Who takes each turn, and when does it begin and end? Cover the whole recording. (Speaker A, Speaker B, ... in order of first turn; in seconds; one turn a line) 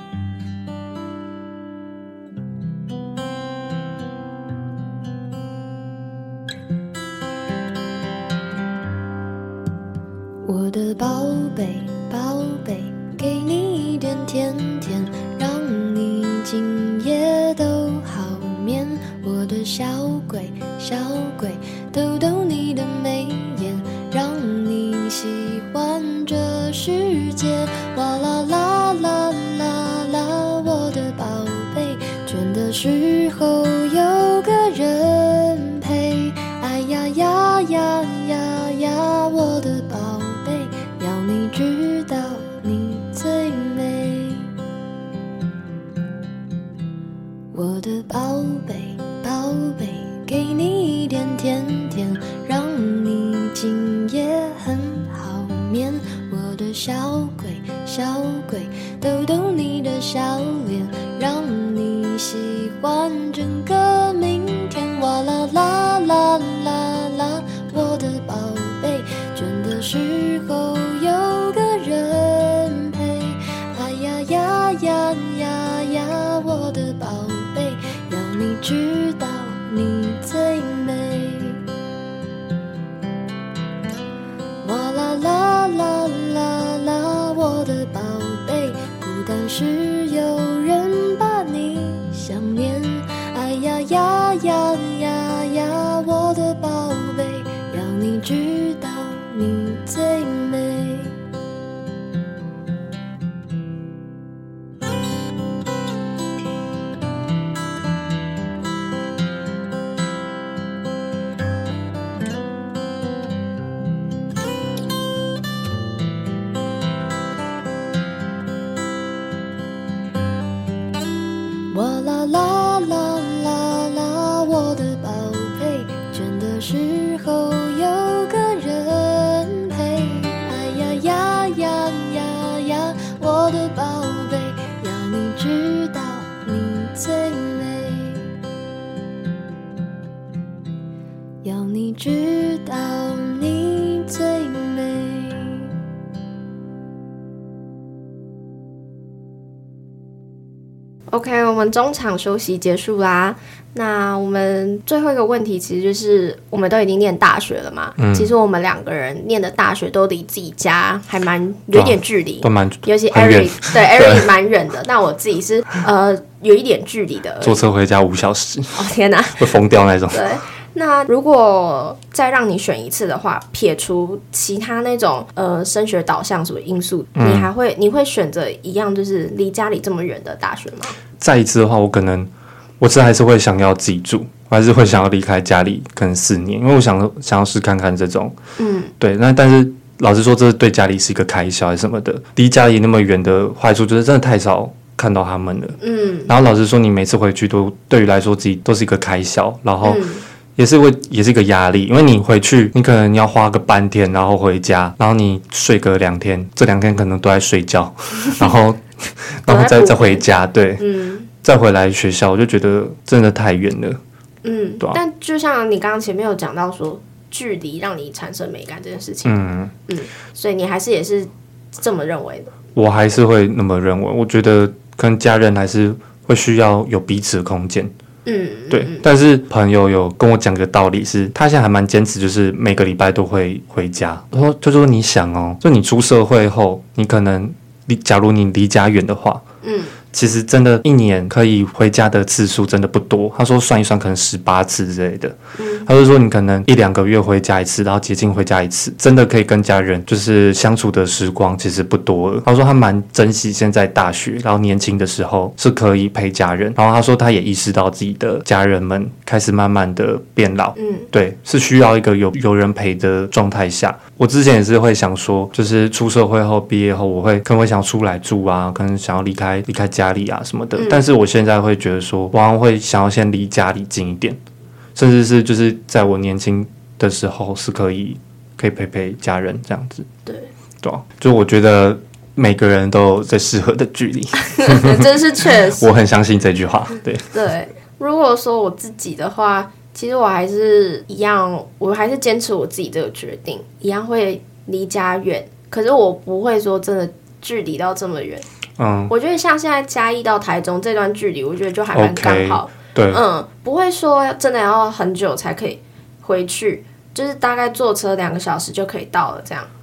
Speaker A: 10.4-44.5
Speaker A: 47.5-81.6
Speaker A: 84.6-101.2
Speaker A: 121.7-138.4
Speaker A: 141.4-145.8
Speaker B: 151.1-167.6
Speaker C: 158.0-158.3
Speaker C: 161.7-164.3
Speaker C: 167.4-168.8
Speaker B: 168.7-169.5
Speaker C: 169.4-170.2
Speaker B: 170.1-181.0
Speaker C: 177.2-177.5
Speaker C: 181.2-182.3
Speaker C: 182.8-188.4
Speaker B: 188.6-188.9
Speaker C: 189.0-200.0
Speaker B: 195.8-196.3
Speaker B: 199.8-200.2
Speaker C: 200.6-210.8
Speaker B: 209.5-210.3
Speaker B: 210.8-211.3
Speaker C: 211.4-214.0
Speaker B: 214.4-222.5
Speaker C: 219.2-219.7
Speaker C: 222.8-227.9
Speaker B: 228.2-229.1
Speaker C: 228.7-239.4
Speaker B: 239.6-240.0
Speaker C: 240.1-274.4
Speaker B: 245.6-245.9
Speaker B: 260.8-261.1
Speaker B: 270.8-271.0
Speaker C: 274.9-280.1
Speaker C: 280.8-287.3
Speaker B: 284.5-285.9
Speaker B: 287.3-298.4
Speaker C: 298.8-299.1
Speaker B: 299.1-309.7
Speaker C: 301.9-303.2